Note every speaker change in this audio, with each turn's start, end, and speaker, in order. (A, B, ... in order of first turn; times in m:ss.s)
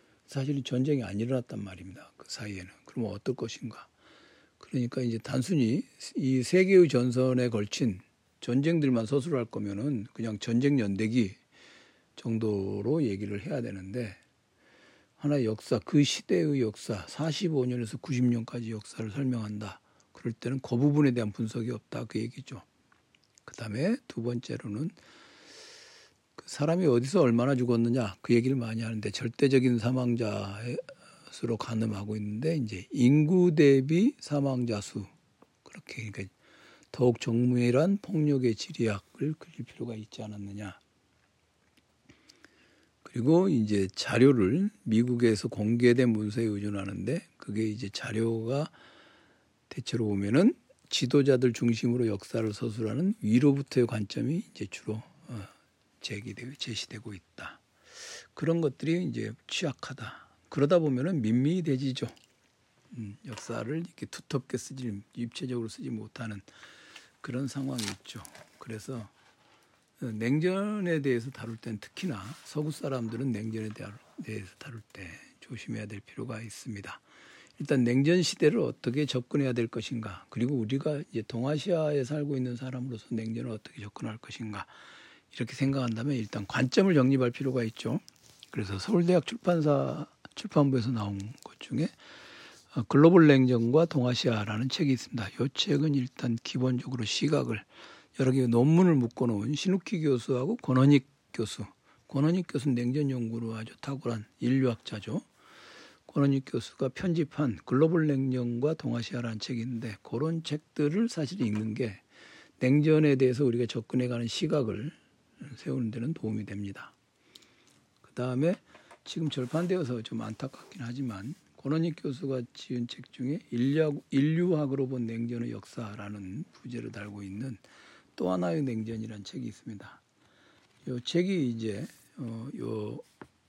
0:00.3-0:03.9 A
0:04.6-0:11.4 A
0:12.2-0:14.2 A
0:15.2-0:22.7 A
0:23.4-0:25.0 A
0:26.4-0:35.1 A
0:35.6-0:36.3 A
0:36.9-0:40.8 A
0:43.0-0:48.7 A
0:49.7-0:57.6 A
0:58.3-1:02.2 A
1:02.9-1:06.5 A
1:07.2-1:09.1 A
1:10.0-1:17.0 A
1:17.6-1:24.7 A
1:25.3-1:32.0 A
1:32.7-1:45.3 A
1:46.1-1:52.0 A
1:52.6-1:56.9 A
1:58.0-2:07.6 A
2:08.2-2:10.0 A
2:10.8-2:13.0 A